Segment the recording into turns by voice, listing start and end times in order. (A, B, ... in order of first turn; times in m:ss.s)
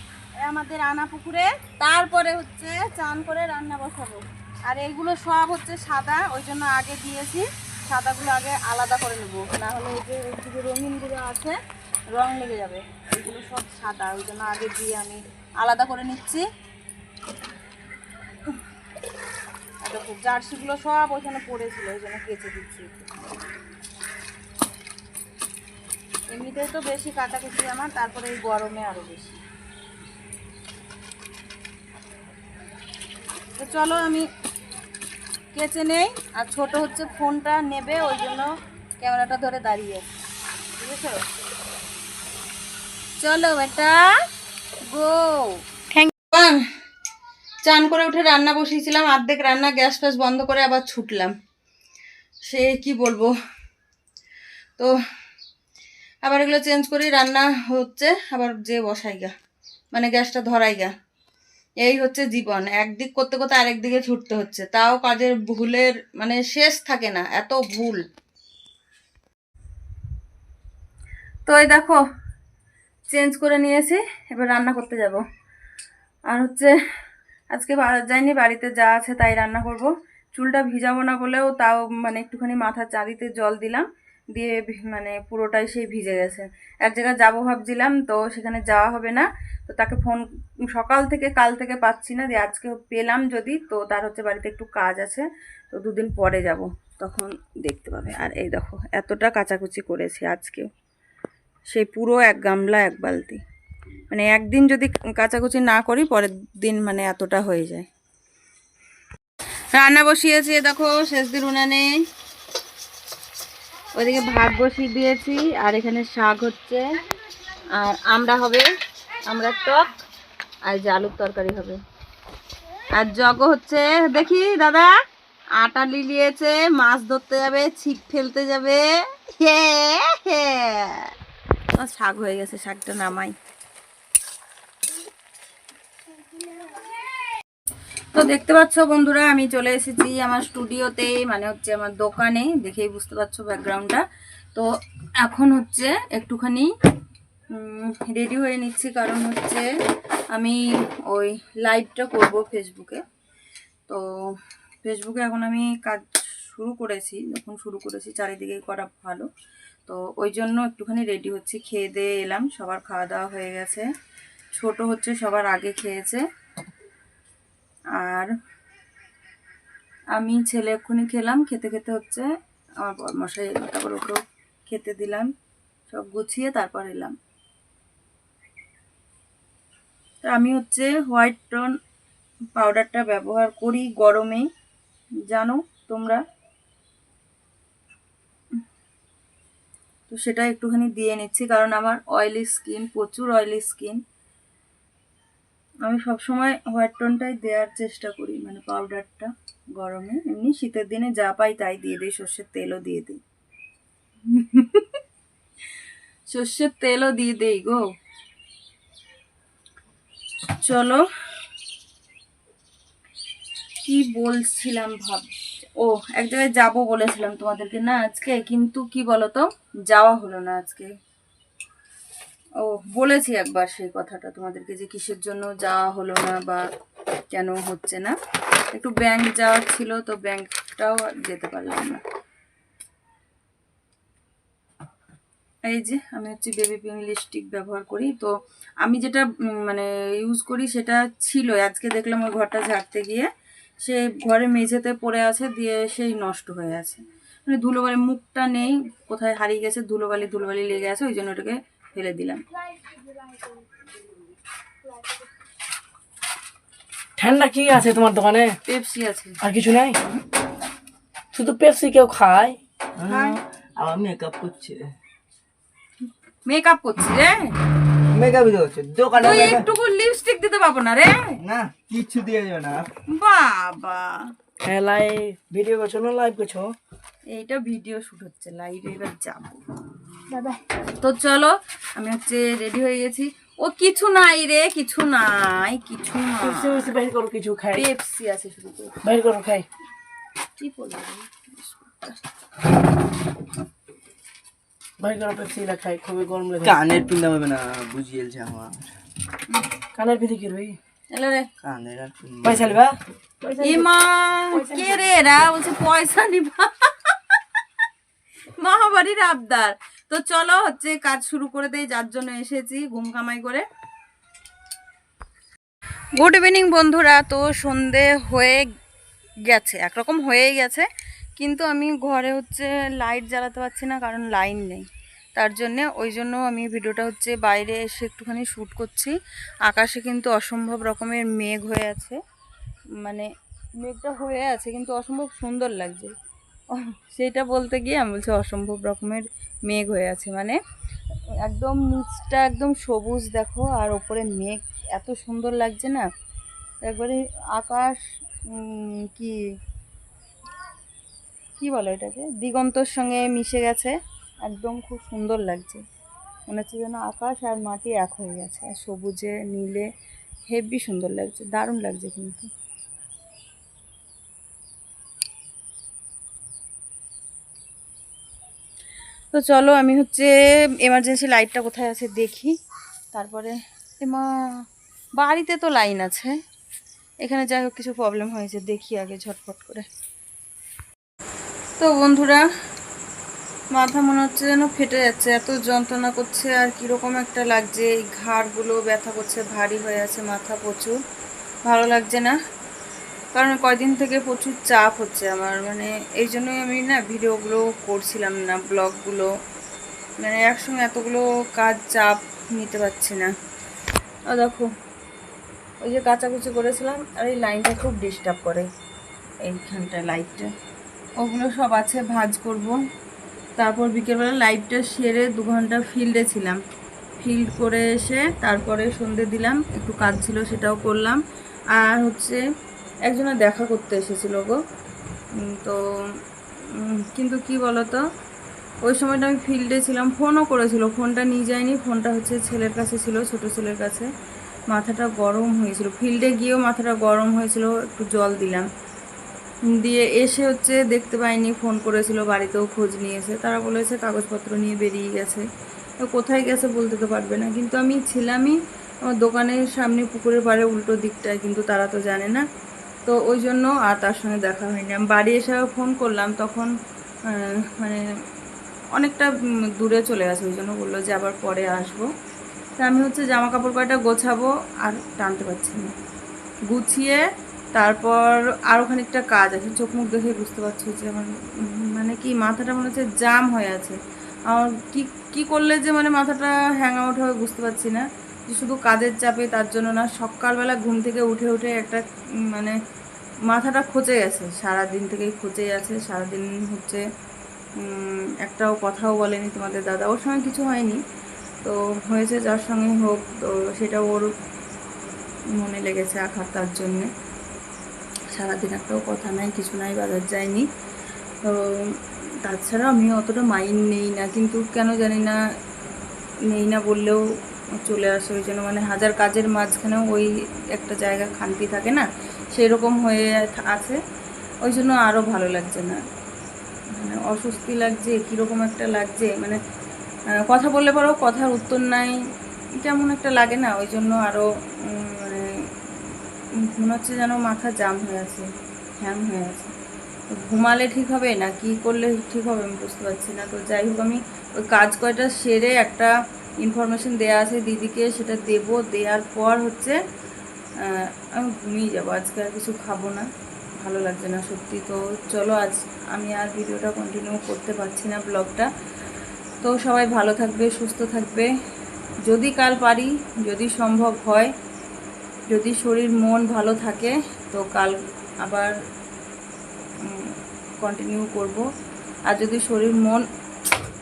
0:00.4-0:11.6 A
0:12.1-0:16.4 A
0:19.8-0:23.1 A
0:26.3-0:29.4 A
0:33.6-0:34.3 A
0:35.5-0:40.1 A
0:40.8-0:41.2 A
0:43.2-0:44.1 A
0:44.9-0:45.6 A
0:46.3-0:46.6 A
0:47.6-0:51.3 A
0:52.5-0:53.3 A
0:56.2-0:59.3 A
0:59.9-1:00.9 A
1:01.8-1:08.0 A
1:11.5-1:12.0 A
1:13.1-1:15.2 A
1:16.3-1:16.7 A
1:17.5-1:40.7 A
1:41.7-1:43.4 A
1:44.1-1:47.9 A
1:49.7-1:51.9 A
1:54.0-1:56.8 A
1:57.8-1:58.7 A
1:59.3-2:00.0 A
2:00.6-2:01.8 A
2:02.9-2:05.0 A
2:05.6-2:11.1 A
2:11.8-2:13.4 A
2:18.1-2:24.7 A
2:25.2-2:26.7 A
2:27.5-2:29.7 A
2:30.3-2:33.0 A
2:33.9-2:39.3 A
2:39.9-2:43.9 A
2:44.6-2:46.2 A
2:48.0-2:48.3 A
2:50.1-2:52.3 A
2:52.8-2:55.3 A
2:55.9-2:57.2 A
3:00.2-3:01.7 A
3:02.6-3:04.5 A
3:05.3-3:06.2 A
3:10.1-3:14.0 A
3:15.8-3:23.2 A
3:24.3-3:24.9 A
3:26.3-3:27.8 A
3:30.6-3:31.0 A
3:33.8-3:40.9 A
3:42.6-3:46.6 A
3:47.3-3:48.2 A
3:48.7-3:52.0 A
3:55.7-4:03.3 A
4:03.8-4:12.4 A
4:17.2-4:18.6 B
4:18.7-4:19.4 A
4:19.4-4:20.0 B
4:21.3-4:22.6 B
4:23.0-4:25.0 C
4:23.0-4:23.4 A
4:26.4-4:27.5 A
4:28.1-4:29.7 C
4:29.2-4:31.4 A
4:31.4-4:32.9 C
4:33.1-4:34.3 A
4:34.6-4:36.7 B
4:37.3-4:39.6 A
4:40.3-4:40.6 B
4:41.0-4:46.9 A
4:46.4-4:47.8 B
4:47.7-4:49.0 A
4:49.0-4:49.7 B
4:50.6-4:52.2 A
4:55.0-4:56.8 B
4:56.6-4:58.9 C
4:59.9-5:00.8 B
5:01.1-5:01.5 A
5:01.6-5:02.8 C
5:02.4-5:03.9 B
5:03.6-5:07.4 A
5:04.5-5:05.0 B
5:08.6-5:13.6 A
5:16.2-5:18.6 A
5:19.5-5:20.9 A
5:21.4-5:29.2 A
5:29.7-5:32.2 A
5:33.8-5:36.1 A
5:36.7-5:40.6 A
5:41.4-5:46.1 A
5:46.8-5:49.4 A
5:51.6-5:55.8 A
5:56.5-5:59.9 A
6:00.5-6:02.5 A
6:09.3-6:12.6 A
6:13.1-6:14.3 A
6:15.2-6:16.4 A
6:17.2-6:19.9 A
6:21.8-6:22.4 A
6:23.7-6:31.0 A
6:31.6-6:32.4 A
6:33.3-6:39.3 A
6:40.2-6:43.3 A
6:44.3-6:44.7 A
6:45.8-6:48.7 A
6:49.4-6:50.5 A
6:51.2-6:52.8 A
6:53.6-6:56.6 A
6:57.2-7:01.2 A
7:01.7-7:02.4 A
7:03.1-7:04.6 A
7:05.4-7:05.8 A
7:06.7-7:08.0 A
7:08.8-7:14.1 A
7:14.7-7:18.7 A
7:19.7-7:25.4 A
7:26.0-7:32.4 A
7:33.1-7:36.7 A
7:37.3-7:38.0 A
7:39.0-7:42.1 A
7:42.8-7:45.9 A
7:46.7-7:54.0 A
7:54.5-8:02.8 A
8:03.5-8:07.0 A
8:07.8-8:11.0 A
8:11.6-8:14.3 A
8:15.5-8:17.1 A
8:18.3-8:20.7 A
8:21.4-8:25.4 A
8:26.5-8:27.2 A
8:27.8-8:34.0 A
8:34.6-8:36.0 A
8:37.0-8:39.6 A
8:40.5-8:42.2 A
8:42.8-8:45.6 A
8:46.7-8:48.5 A
8:49.0-8:49.7 A
8:50.3-9:00.0 A
9:00.9-9:03.3 A
9:03.8-9:08.7 A
9:09.6-9:11.5 A
9:12.3-9:14.5 A
9:15.5-9:18.7 A
9:20.0-9:21.6 A
9:22.3-9:23.2 A